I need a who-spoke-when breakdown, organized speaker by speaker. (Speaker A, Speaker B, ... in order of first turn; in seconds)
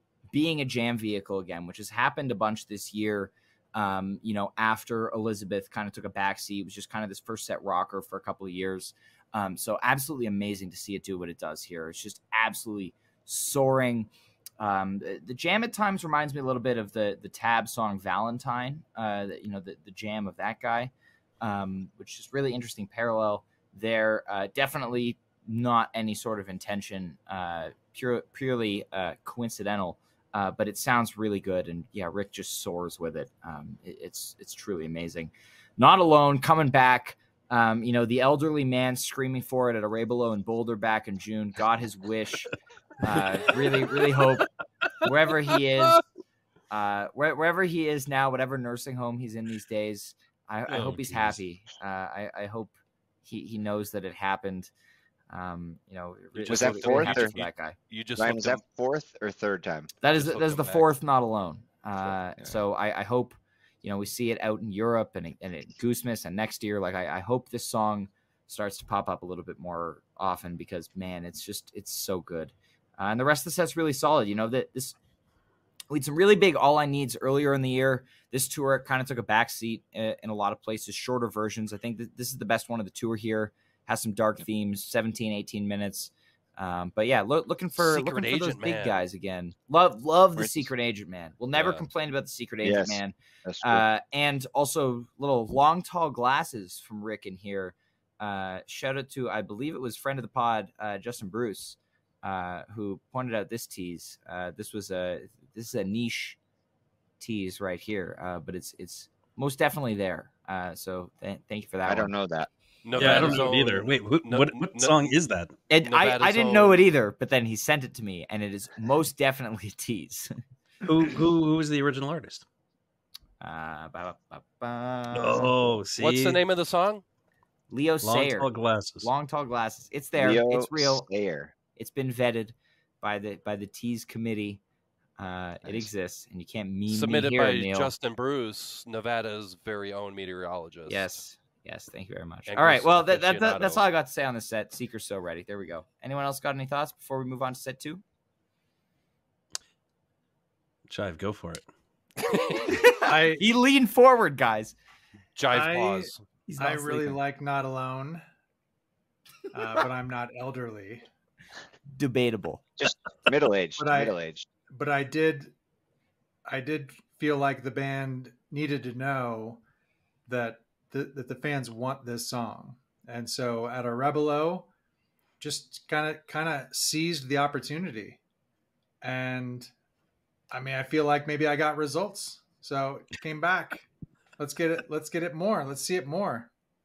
Speaker A: 0.3-42.5, 43.0-44.5, 45.0-46.0, 46.7-52.7, 53.2-54.7, 55.3-57.8, 60.0-75.0, 75.9-106.4, 107.2-112.1, 115.7-120.3, 123.4-125.8, 127.7-128.5, 129.0-131.1, 131.8-134.6, 135.2-137.9, 140.9-148.0, 152.7-154.8, 156.6-157.2, 162.0-162.6
Speaker B: 50.7-51.4, 113.0-115.5, 120.8-122.4, 125.1-126.4, 128.0-129.1, 150.9-151.7
Speaker C: 56.4-58.6, 60.2-60.9, 87.8-89.0, 112.8-115.0, 115.8-116.8, 126.0-127.0, 136.9-141.1, 142.5-143.8, 155.4-156.2
Speaker D: 56.5-57.3, 58.2-59.9, 90.4-90.7, 91.6-91.8, 92.6-93.8, 111.8-113.5, 130.2-131.5, 135.6-135.9, 162.8-164.5
Speaker E: 152.9-153.4, 155.5-158.2, 159.5-161.0, 163.8-164.1, 164.7-165.5, 166.5-169.6, 170.3-174.7, 175.4-178.2, 179.0-179.7, 180.5-183.9, 184.4-186.5